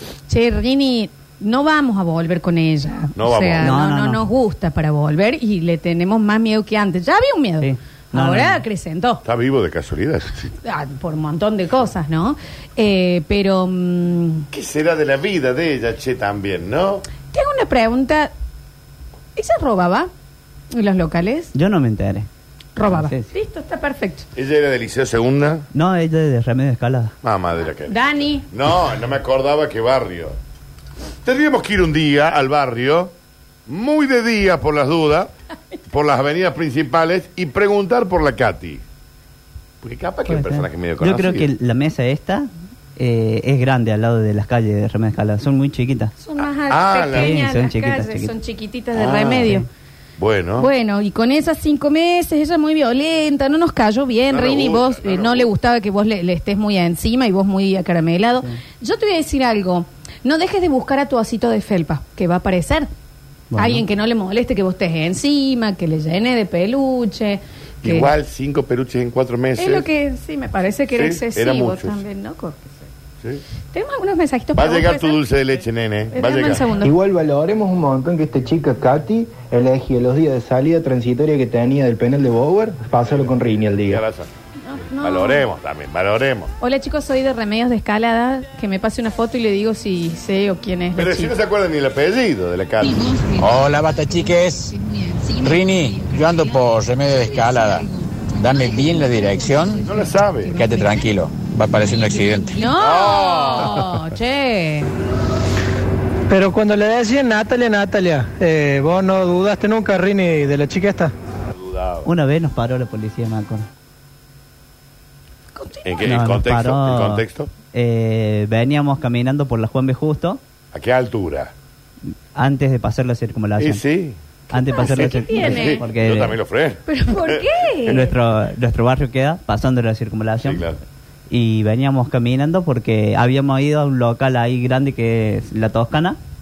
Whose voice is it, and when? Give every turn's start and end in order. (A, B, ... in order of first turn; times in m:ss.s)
0:00.3-0:09.2 A
0:03.2-0:03.8 B
0:03.6-0:04.2 C
0:07.6-0:08.6 C
0:09.2-0:10.5 B
0:10.6-0:14.5 A
0:14.5-0:17.0 B
0:17.3-0:18.3 A
0:19.4-0:20.1 A
0:20.7-0:21.5 A
0:21.5-0:22.3 C
0:22.8-0:24.2 A
0:22.8-0:23.3 C
0:24.4-0:25.6 B
0:25.7-0:27.1 C
0:27.2-0:30.3 B
0:27.9-0:28.4 A
0:31.2-0:33.1 B
0:33.7-0:35.3 B
0:35.9-0:38.8 B
0:39.8-0:41.5 B
0:40.3-0:46.1 C
0:46.2-0:49.6 A
0:46.7-0:47.5 B
0:47.1-0:48.3 C
0:48.9-0:49.6 B
0:50.2-0:50.7 B
0:50.6-1:02.9 A
0:54.3-0:55.5 B
1:03.5-1:03.8 C
1:03.6-1:08.1 A
1:07.8-1:09.8 B
1:09.6-1:12.8 A
1:10.9-1:12.0 B
1:13.7-1:15.2 A
1:14.6-1:16.7 B
1:16.1-1:16.9 A
1:16.8-1:24.0 D
1:23.0-1:24.3 B
1:24.6-1:25.4 A
1:25.0-1:26.5 B
1:26.6-1:31.3 A
1:31.0-1:33.1 B
1:33.4-1:34.7 E
1:35.4-1:37.9 E
1:38.4-1:39.9 E
1:39.8-1:40.6 B
1:40.5-1:42.6 E
1:42.6-1:44.9 A
1:42.6-1:43.8 B
1:46.3-1:51.1 F
1:51.6-1:52.1 B
1:52.0-1:53.7 C
1:55.5-1:56.2 A
1:55.8-1:57.5 B
1:56.1-2:00.4 C
2:00.7-2:01.5 B
2:02.3-2:03.8 C
2:03.6-2:08.1 B
2:04.5-2:06.4 C
2:04.6-2:05.9 A
2:06.8-2:08.1 A
2:07.9-2:10.6 C
2:10.4-2:10.8 B
2:11.3-2:16.2 C